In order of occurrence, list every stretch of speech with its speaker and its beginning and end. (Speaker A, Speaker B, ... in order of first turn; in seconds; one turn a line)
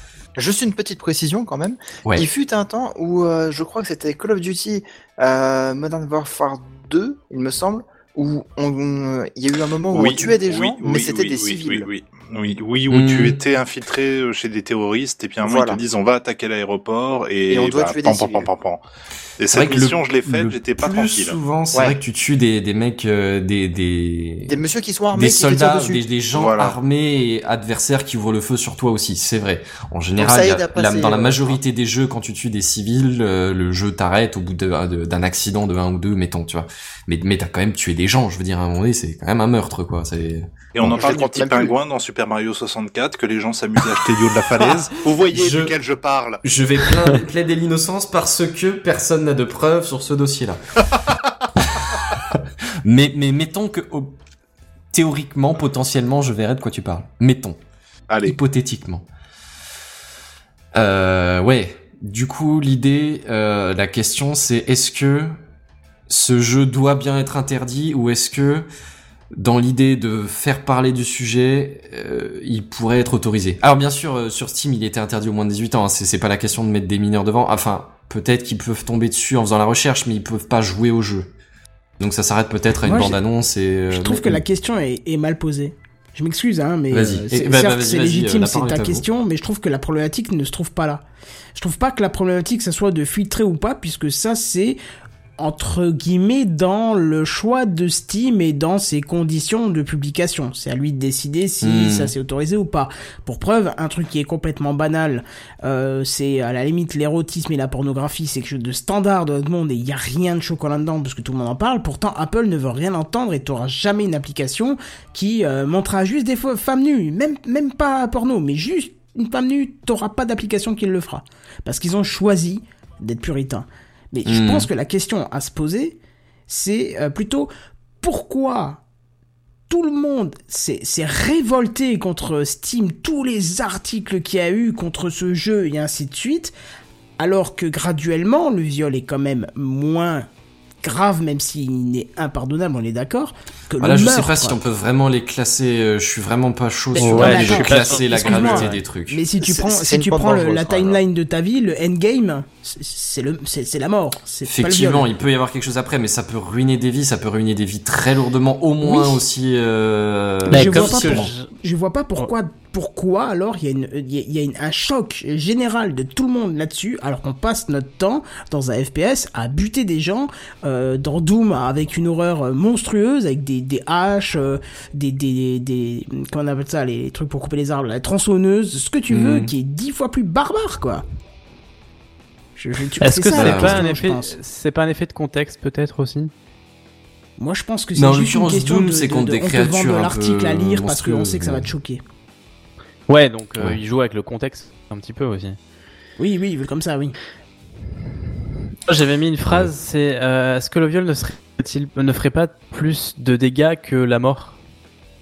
Speaker A: 0.3-11.9
Speaker B: 9.9-18.8
Speaker C: 12.9-13.4
Speaker A: 15.4-15.8
Speaker A: 17.5-18.5
Speaker B: 19.4-21.4
Speaker C: 19.5-24.6
Speaker A: 21.7-22.0
Speaker A: 24.5-26.0
Speaker C: 25.1-40.9
Speaker B: 26.3-26.8
Speaker A: 30.2-31.6
Speaker B: 40.7-46.4
Speaker A: 40.8-41.7
Speaker C: 45.3-45.8
Speaker C: 46.4-50.8
Speaker C: 52.3-54.2
Speaker C: 54.9-57.6
Speaker B: 58.1-58.4
Speaker C: 58.2-59.0
Speaker C: 60.7-65.3
Speaker C: 66.1-68.7
Speaker C: 69.3-81.3
Speaker C: 82.0-84.4
Speaker D: 82.8-83.2
Speaker D: 83.9-91.0
Speaker C: 86.9-89.0
Speaker D: 91.5-94.8
Speaker D: 95.4-127.5
Speaker C: 101.6-102.1
Speaker C: 124.2-124.7
Speaker D: 128.0-128.8
Speaker D: 129.7-136.5
Speaker D: 137.2-140.3
Speaker D: 140.8-144.6
Speaker C: 143.8-149.2
Speaker D: 146.9-155.1
Speaker E: 147.0-148.7
Speaker A: 149.4-151.0
Speaker C: 154.4-161.3
Speaker D: 158.8-159.2
Speaker E: 160.5-161.5
Speaker D: 160.5-181.0
Speaker C: 179.1-179.5
Speaker D: 182.6-184.3
Speaker E: 183.0-186.3
Speaker C: 183.3-183.8
Speaker D: 187.4-192.0
Speaker C: 187.9-191.7
Speaker E: 193.1-195.6
Speaker D: 196.2-197.2
Speaker E: 198.9-204.6